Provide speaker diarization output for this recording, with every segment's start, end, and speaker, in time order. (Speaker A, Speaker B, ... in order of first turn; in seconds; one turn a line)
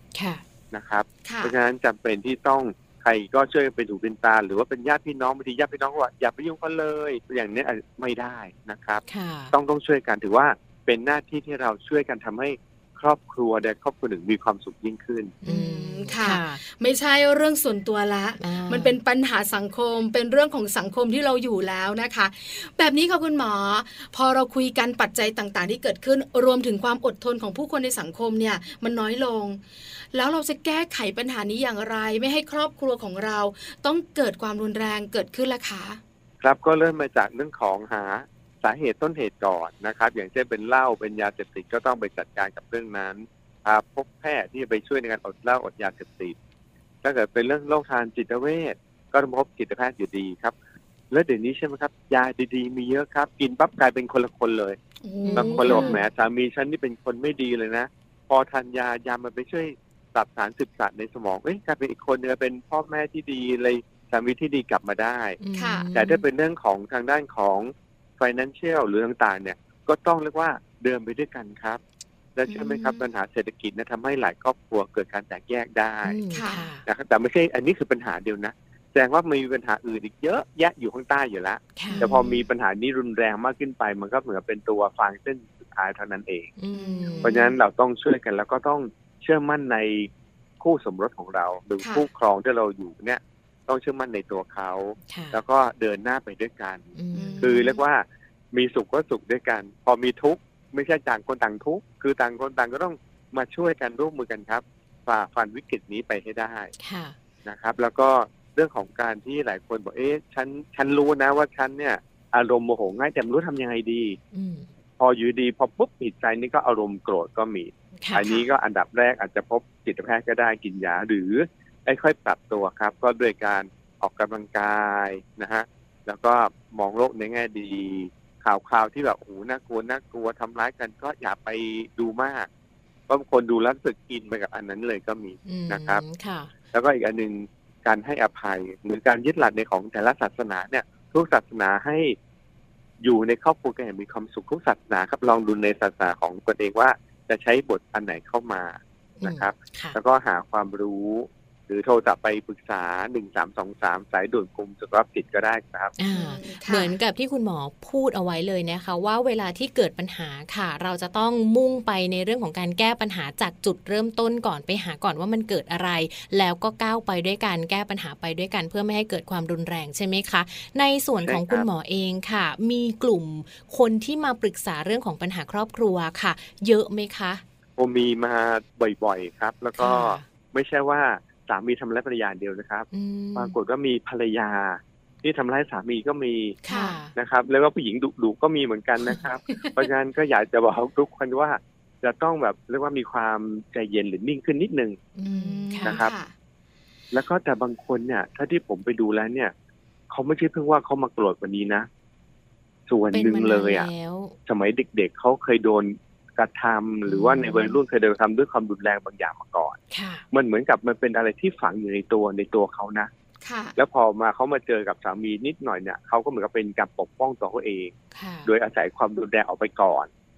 Speaker A: 0.1-0.4
Speaker B: 0.7-15.4
Speaker C: 1.2-1.6
Speaker A: 9.1-9.5
Speaker A: 15.4-16.6
Speaker C: 15.4-29.6
Speaker A: 18.4-18.9
Speaker C: 30.1-36.0
Speaker B: 36.4-46.4
Speaker B: 47.0-50.5
Speaker B: 51.1-54.8
Speaker C: 55.0-56.0
Speaker A: 55.2-56.0
Speaker B: 55.3-65.4
Speaker A: 65.4-66.2
Speaker C: 65.5-65.9
Speaker B: 65.9-71.8
Speaker B: 72.4-76.2
Speaker C: 72.5-73.0
Speaker A: 76.0-76.8
Speaker C: 76.3-76.7
Speaker B: 76.8-86.6
Speaker A: 81.8-82.1
Speaker C: 81.9-82.5
Speaker A: 86.6-87.4
Speaker C: 86.7-87.6
Speaker B: 87.2-96.9
Speaker C: 91.8-92.1
Speaker A: 95.1-95.4
Speaker A: 97.0-97.5
Speaker C: 97.1-97.8
Speaker B: 97.4-106.7
Speaker A: 106.8-107.2
Speaker B: 107.5-114.2
Speaker A: 114.3-114.7
Speaker B: 115.0-132.5
Speaker A: 118.0-118.5
Speaker B: 133.1-136.0
Speaker A: 135.5-136.5
Speaker B: 136.7-142.2
Speaker B: 143.0-155.9
Speaker A: 149.2-150.0
Speaker A: 156.0-177.4
Speaker C: 156.1-156.9
Speaker B: 171.3-171.7
Speaker B: 177.8-186.6
Speaker A: 179.8-180.2
Speaker A: 182.9-183.6
Speaker A: 186.6-187.1
Speaker C: 186.7-187.0
Speaker B: 187.1-195.0
Speaker C: 189.5-189.8
Speaker A: 195.2-196.0
Speaker C: 195.2-196.3
Speaker B: 195.8-196.1
Speaker B: 197.1-199.5
Speaker B: 200.1-201.9
Speaker B: 202.9-203.9
Speaker A: 203.1-204.4
Speaker B: 204.5-209.8
Speaker A: 207.1-207.8
Speaker A: 209.9-210.2
Speaker B: 210.3-213.1
Speaker C: 213.4-213.8
Speaker B: 213.8-217.9
Speaker A: 218.2-218.5
Speaker B: 218.5-220.1